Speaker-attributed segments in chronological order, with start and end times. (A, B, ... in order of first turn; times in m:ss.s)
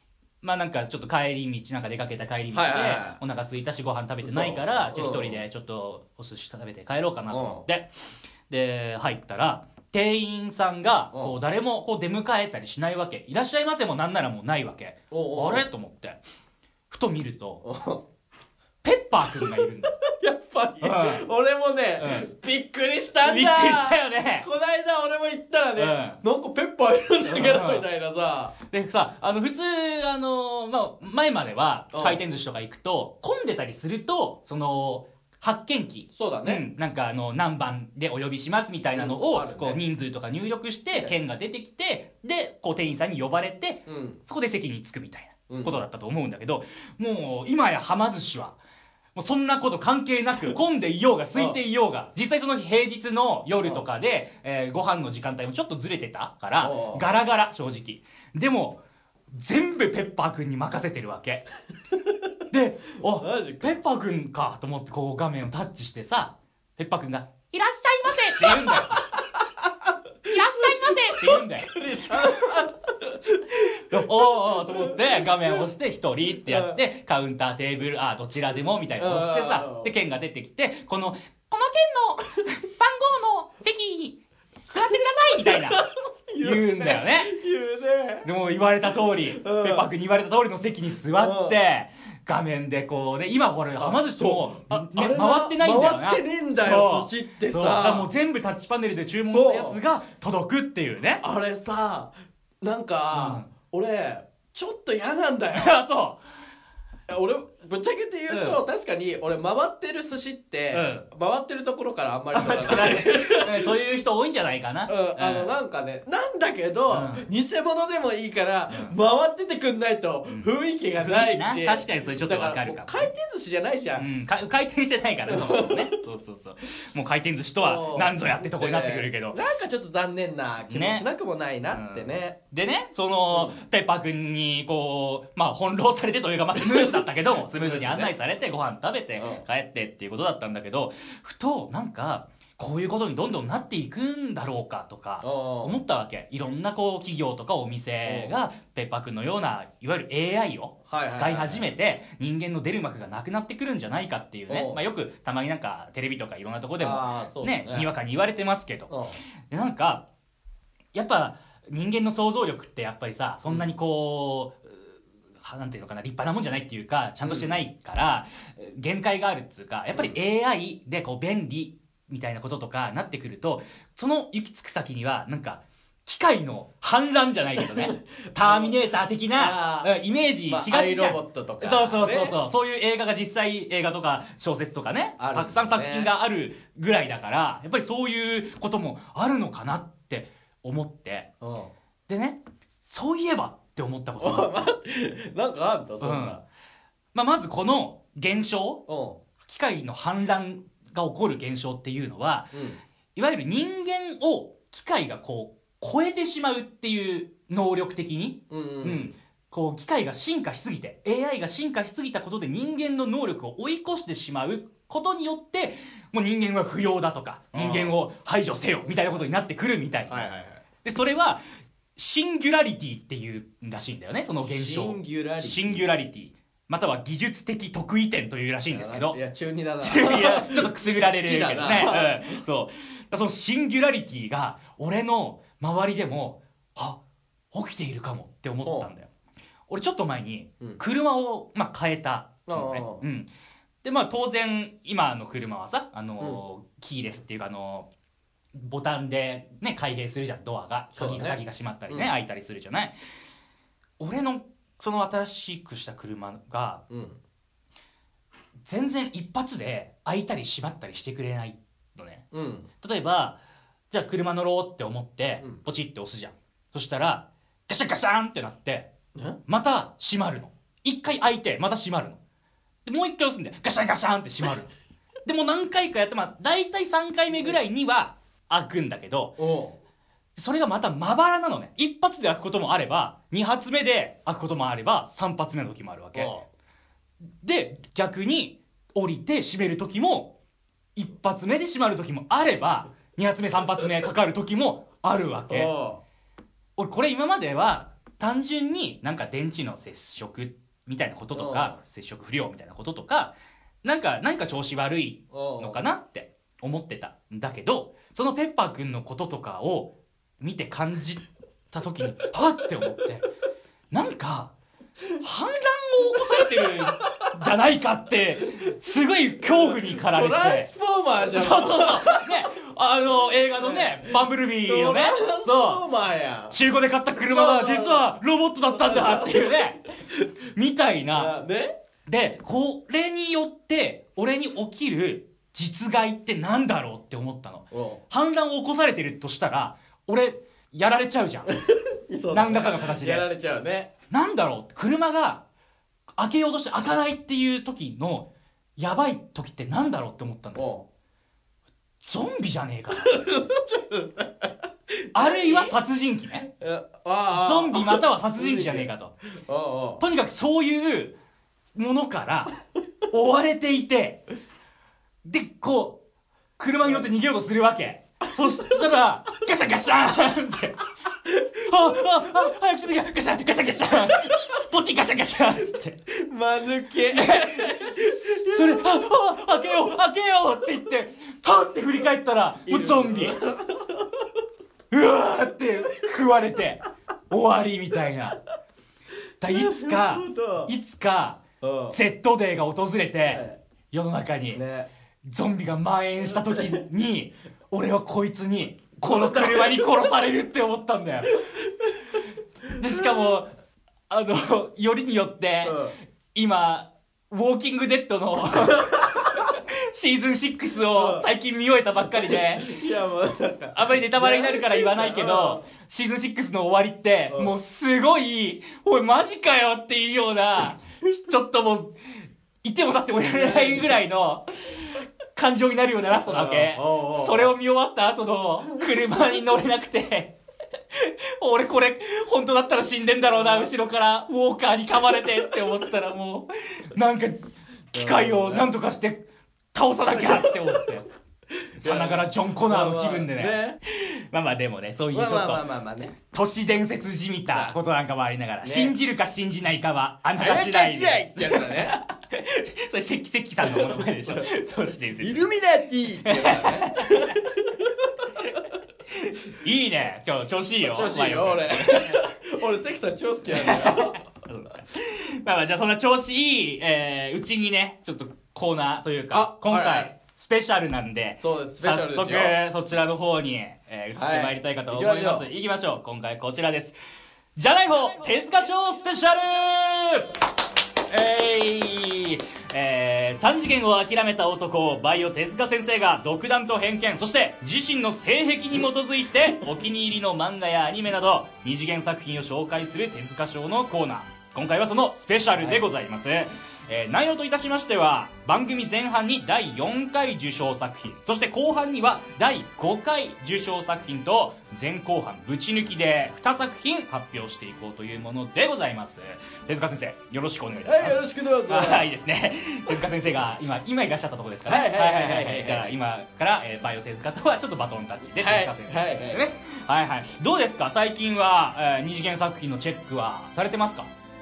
0:00.4-0:07.9 A
0:02.5-0:03.2 B
0:04.2-0:05.4 B
0:07.3-0:07.6 B
0:08.5-0:16.2 A
0:15.1-0:15.6 B
0:16.9-0:17.6 A
0:17.6-0:18.0 B
0:18.8-0:19.9 A
0:20.0-0:28.6 B
0:20.8-0:21.3 A
0:22.0-0:22.2 A
0:23.2-0:24.5 A
0:25.8-0:26.2 A
0:27.3-0:27.8 A
0:28.7-0:48.6 A
0:31.9-0:32.2 B
0:36.1-0:36.6 B
0:38.9-0:39.8 B
0:43.8-0:44.2 B
0:45.5-0:45.8 B
0:49.1-0:58.8 A
0:56.6-0:57.0 B
0:59.3-1:01.4 A
1:02.5-1:09.1 A
1:03.1-1:03.8 B
1:08.4-1:15.6 B
1:10.3-1:12.6 A
1:13.9-1:24.2 A
1:16.4-1:16.8 B
1:19.0-1:19.9 B
1:24.7-1:25.9 A
1:24.7-1:28.3 B
1:26.4-1:27.3 A
1:28.2-1:41.2 A
1:29.3-1:29.9 B
1:31.2-1:31.6 B
1:33.8-1:38.1 B
1:39.3-1:39.8 B
1:41.2-1:45.7 B
1:43.1-1:43.5 A
1:45.5-1:46.2 A
1:47.1-1:53.7 B
1:48.3-1:48.6 A
1:50.7-1:51.1 A
1:52.3-1:55.6 A
1:54.9-2:04.0 B
1:56.9-1:57.3 A
1:58.7-1:59.0 A
2:00.3-2:03.1 A
2:04.0-2:09.4 A
2:05.3-2:05.9 B
2:07.6-2:12.4 B
2:10.7-2:11.0 A
2:11.7-2:38.9 A
2:13.3-2:13.6 B
2:16.6-2:18.1 B
2:19.2-2:19.4 B
2:25.2-2:25.8 B
2:28.0-2:28.4 B
2:30.9-2:31.7 B
2:34.5-2:34.8 B
2:36.8-2:37.9 B
2:38.9-2:39.2 B
2:39.5-2:40.0 A
2:40.9-3:11.3 A
2:47.2-2:47.5 B
2:49.9-2:50.2 B
2:57.7-2:58.8 B
2:59.3-2:59.9 B
3:00.4-3:02.4 B
3:05.2-3:06.1 B
3:11.4-3:11.7 B
3:12.1-3:14.6 A
3:14.2-3:16.4 B
3:16.0-3:16.4 A
3:17.1-3:18.8 A
3:18.9-3:19.2 B
3:19.4-3:22.5 A
3:22.5-3:22.8 B
3:23.2-3:40.3 A
3:28.5-3:29.1 B
3:37.5-3:37.9 B
3:40.1-3:40.6 B
3:40.8-3:41.4 A
3:42.0-3:49.2 A
3:44.5-3:45.9 B
3:48.7-3:52.4 B
3:49.8-3:57.0 A
3:57.5-3:59.1 A
3:58.6-3:58.9 B
3:59.7-4:03.3 A
4:02.4-4:03.0 B
4:03.8-4:07.9 A
4:08.5-4:12.9 A
4:10.9-4:12.1 B
4:14.0-4:16.8 A
4:16.9-4:17.2 B
4:18.6-4:22.2 A
4:22.3-4:22.7 B
4:22.8-4:23.4 A
4:23.9-4:28.9 A
4:29.5-4:32.2 A
4:32.8-4:34.7 A
4:35.2-4:39.4 A
4:39.4-4:39.8 B
4:40.4-4:46.3 A
4:46.1-4:46.4 B
4:47.4-4:50.3 A
4:51.0-4:55.7 A
4:55.5-4:56.0 B
4:56.8-5:13.3 A
5:01.3-5:01.8 B
5:05.3-5:05.8 B
5:13.9-5:14.5 A
5:15.2-5:20.7 A
5:16.4-5:17.3 B
5:19.4-5:22.4 B
5:21.3-5:25.8 A
5:23.6-5:26.6 B
5:26.5-5:29.8 A
5:27.2-5:28.1 B
5:28.7-5:30.2 B
5:30.5-5:31.3 A
5:31.1-5:31.7 B
5:32.0-5:41.5 A
5:37.7-5:38.0 B
5:41.5-5:43.9 B
5:42.3-5:43.3 A
5:44.1-5:45.4 A
5:46.1-5:50.6 A
5:50.5-5:50.8 B
5:52.0-5:53.2 A
5:52.9-5:55.7 B
5:55.1-5:56.5 A
5:56.4-6:00.0 B
5:57.3-5:59.1 A
6:00.0-6:01.1 A
6:01.7-6:02.5 A
6:03.1-6:04.2 A
6:05.2-6:06.0 A
6:06.6-6:10.8 A
6:11.2-6:12.3 B
6:11.6-6:16.0 A
6:16.1-6:19.7 B
6:17.1-6:23.4 A
6:22.6-6:24.2 B
6:24.9-6:28.4 A
6:29.4-6:34.6 A
6:29.5-6:30.7 B
6:31.6-6:32.0 B
6:33.2-6:33.6 B
6:34.5-6:34.9 B
6:35.2-6:41.6 A
6:36.4-6:36.8 B
6:39.1-6:39.9 B
6:42.8-6:43.5 A
6:44.1-6:45.8 A
6:45.6-6:46.0 B
6:46.3-6:52.7 A
6:48.6-6:49.5 B
6:50.9-6:51.3 B
6:52.2-6:55.6 B
6:53.7-7:01.9 A
7:02.6-7:10.3 A
7:03.2-7:03.9 B
7:06.3-7:07.5 B
7:10.9-7:19.2 A
7:13.2-7:13.7 B
7:17.9-7:18.7 B
7:19.7-7:21.0 A
7:20.1-7:20.8 B
7:21.6-7:23.8 B
7:21.8-7:25.6 A
7:25.1-7:26.2 B
7:26.3-7:35.5 A
7:28.6-7:28.9 B
7:30.4-7:32.0 B
7:33.6-7:34.5 B
7:35.2-7:38.3 B
7:36.2-7:37.4 A
7:39.1-7:42.3 A
7:40.8-7:44.2 B
7:43.5-7:57.0 A
7:49.3-7:50.1 B
7:51.4-7:52.6 B
7:54.2-7:55.5 B
7:57.6-8:00.4 A
8:01.1-8:44.1 A
8:15.6-8:15.8 B
8:30.8-8:32.1 B
8:34.6-8:35.9 B
8:38.4-8:39.5 B